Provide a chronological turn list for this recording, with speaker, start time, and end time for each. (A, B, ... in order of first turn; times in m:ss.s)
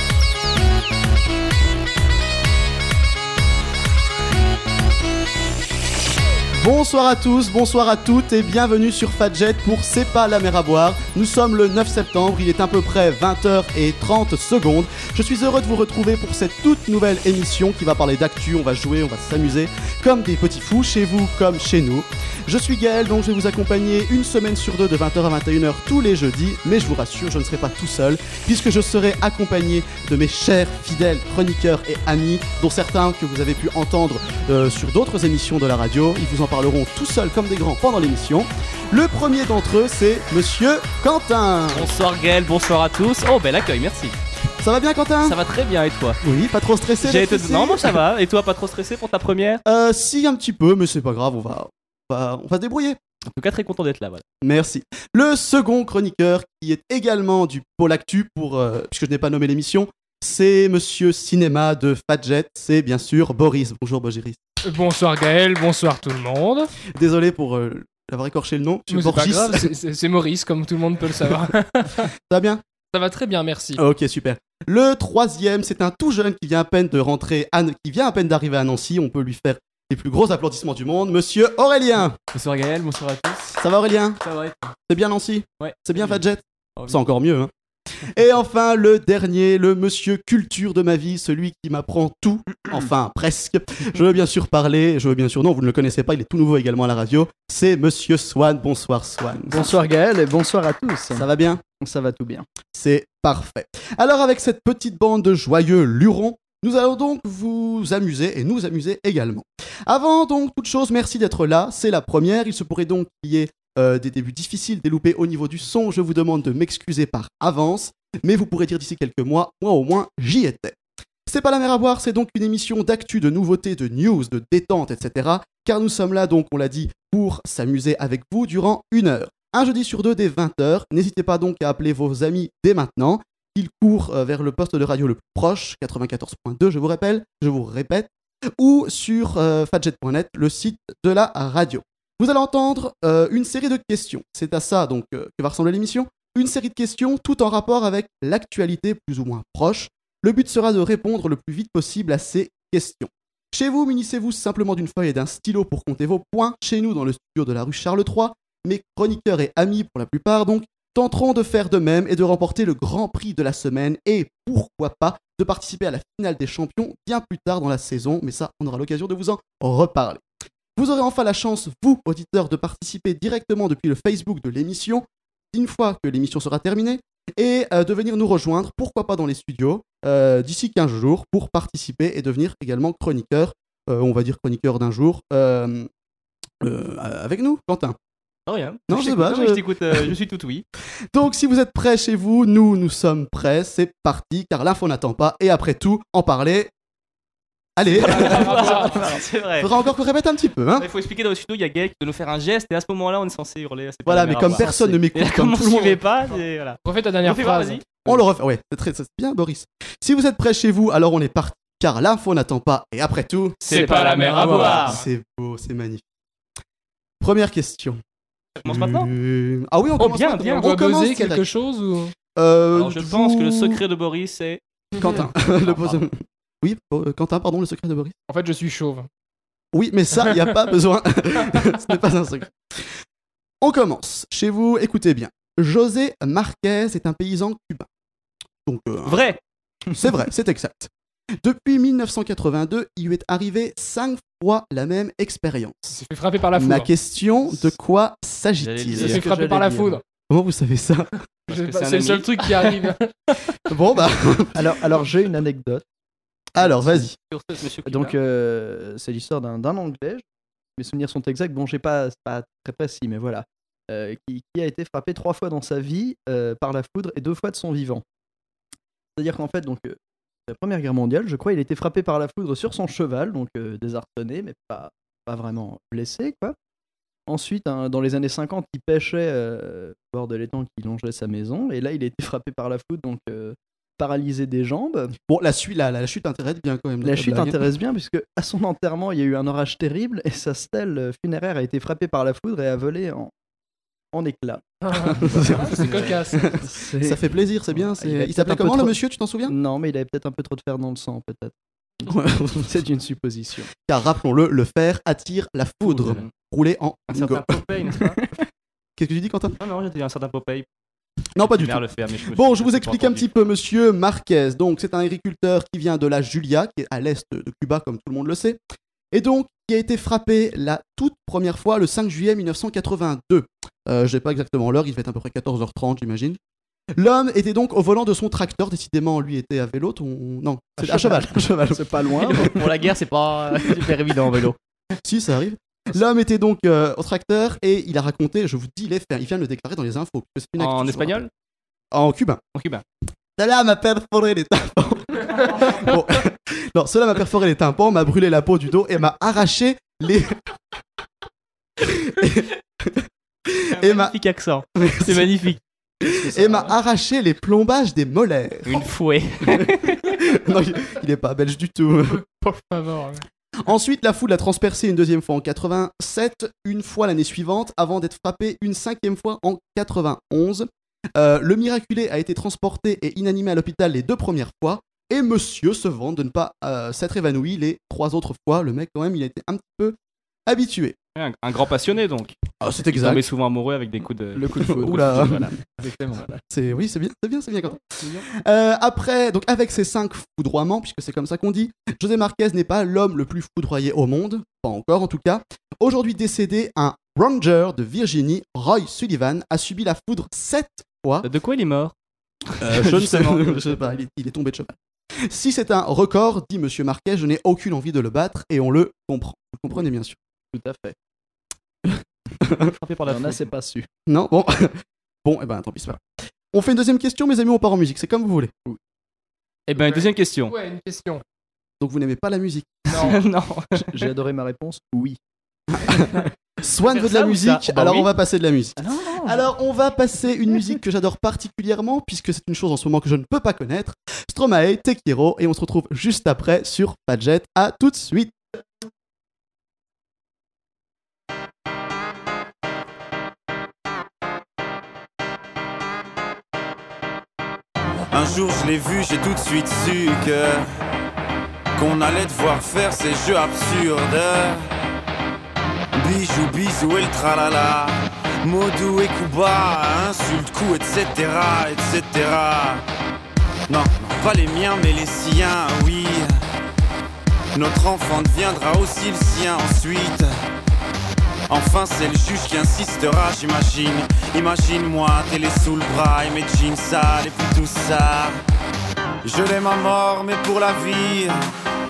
0:06.5-0:41.9 A
0:41.7-0:44.2 B
0:44.6-0:45.4 A
0:45.2-0:46.2 B
0:46.2-0:48.0 A
0:47.0-0:49.6 B
0:49.6-0:53.0 A
0:53.3-0:54.2 B
0:54.4-1:04.4 A
1:04.6-1:06.7 C
1:06.9-1:09.7 A
1:08.9-1:12.1 C
1:12.3-1:12.6 A
1:12.9-1:13.8 C
1:13.8-1:22.2 A
1:22.3-1:23.5 D
1:23.5-1:24.2 A
1:24.2-1:24.7 D
1:24.9-1:27.5 A
1:25.6-1:26.2 D
1:26.8-1:27.0 D
1:28.0-1:39.8 A
1:39.5-1:41.2 E
1:41.1-1:41.6 A
1:41.8-1:42.5 E
1:42.7-2:50.2 A
2:50.8-3:05.9 A
3:06.6-3:08.0 A
3:08.5-3:10.6 B
3:08.9-3:10.1 A
3:11.1-3:16.7 A
3:17.8-3:19.0 A
3:17.9-3:19.0 C
3:17.9-3:19.7 B
3:19.6-3:20.8 A
3:20.7-3:28.2 B
3:24.0-3:26.0 A
3:26.8-3:27.9 C
3:28.0-3:36.0 A
3:33.6-3:35.0 B
3:33.6-3:35.0 C
3:37.2-3:38.0 A
3:38.6-3:39.1 B
3:38.6-3:41.4 A
3:40.0-3:40.7 B
3:40.6-3:42.1 C
3:42.3-3:43.8 A
3:42.7-3:44.6 B
3:45.0-3:48.1 A
3:45.4-3:46.0 B
3:48.3-3:49.1 C
3:49.7-3:52.9 A
3:53.6-3:57.9 A
3:58.6-3:59.4 A
3:59.0-3:59.4 B
3:59.9-4:06.0 A
4:05.9-4:06.9 C
4:06.5-4:09.2 A
4:08.6-4:09.2 B
4:09.0-4:10.0 E
4:09.0-4:10.0 C
4:10.3-4:11.2 A
4:11.5-4:12.8 B
4:11.5-4:13.1 C
4:13.7-4:14.7 A
4:14.5-4:15.8 E
4:16.6-4:17.1 A
4:16.6-4:17.1 E
4:17.2-4:18.2 B
4:17.8-4:20.2 E
4:20.8-4:28.0 E
4:29.2-4:36.6 E
4:37.3-4:45.1 E
4:45.3-4:47.6 A
4:47.0-4:53.3 E
4:54.1-5:03.7 E
4:54.9-4:56.6 C
4:55.1-4:55.8 A
4:55.7-4:56.2 B
4:56.4-4:59.6 A
5:02.1-5:02.8 A
5:03.8-5:07.6 A
5:05.8-5:06.3 B
5:07.1-5:08.2 B
5:09.0-5:09.6 A
5:09.6-5:10.6 B
5:11.4-5:18.6 A
5:11.5-5:13.3 B
5:19.1-5:26.4 A
5:26.9-5:32.6 A
5:30.8-5:32.5 E
5:32.3-5:34.6 B
5:35.0-5:41.2 A
5:40.6-5:41.3 B
5:41.9-5:42.4 A
5:42.5-5:42.8 B
5:43.4-5:50.4 A
5:51.8-5:54.2 A
5:53.7-5:55.6 B
5:54.8-5:55.5 A
5:56.0-5:56.8 E
5:56.0-5:58.9 A
5:58.6-6:00.2 B
5:59.5-6:02.2 A
6:02.2-6:03.2 C
6:03.6-6:21.0 A
6:21.2-6:22.3 B
6:22.6-6:23.2 A
6:22.9-6:25.5 B
6:24.3-6:26.4 E
6:24.6-6:25.5 A
6:26.5-6:41.3 A
6:41.2-6:41.9 B
6:42.6-6:43.4 B
6:42.6-6:50.2 A
6:50.5-6:50.9 E
6:51.9-6:52.7 A
6:52.6-6:53.5 B
6:53.0-6:53.9 E
6:54.1-6:58.5 A
6:59.7-7:00.5 B
6:59.8-7:01.2 C
7:01.8-7:03.0 A
7:02.9-7:03.2 C
7:02.9-7:04.0 B
7:03.8-7:05.2 E
7:05.8-7:18.4 A
7:06.8-7:08.1 B
7:08.8-7:09.4 E
7:28.1-7:30.6 F
7:31.8-7:34.6 F
7:36.0-7:42.8 F
7:43.7-7:46.3 F
7:47.5-7:50.3 F
7:51.5-7:58.4 F
7:59.2-8:01.4 F